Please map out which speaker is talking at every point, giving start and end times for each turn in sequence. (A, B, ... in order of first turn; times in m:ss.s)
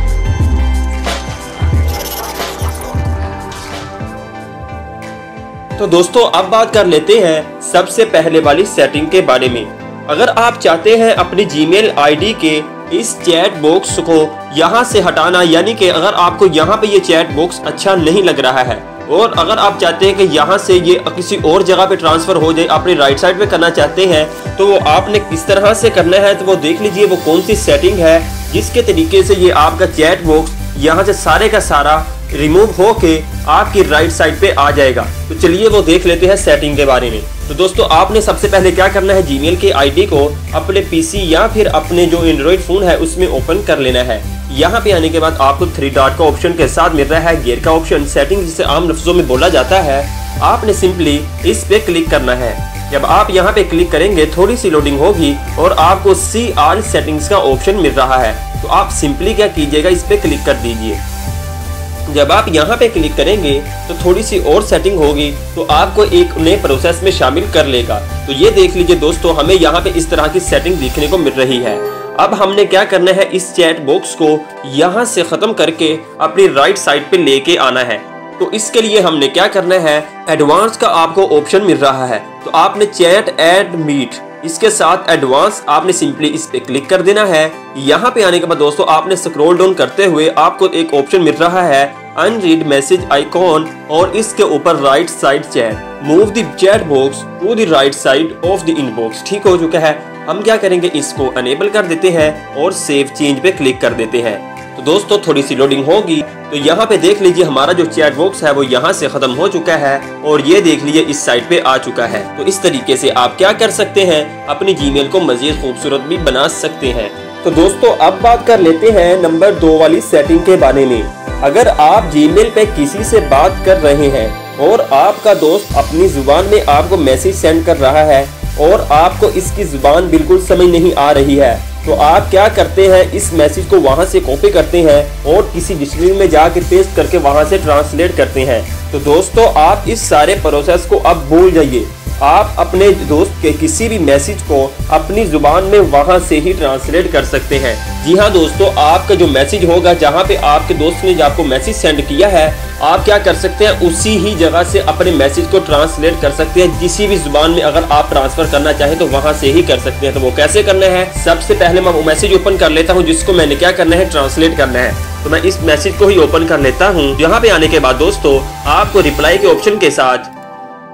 0:05.8-1:01.0 A
1:02.1-2:50.3 A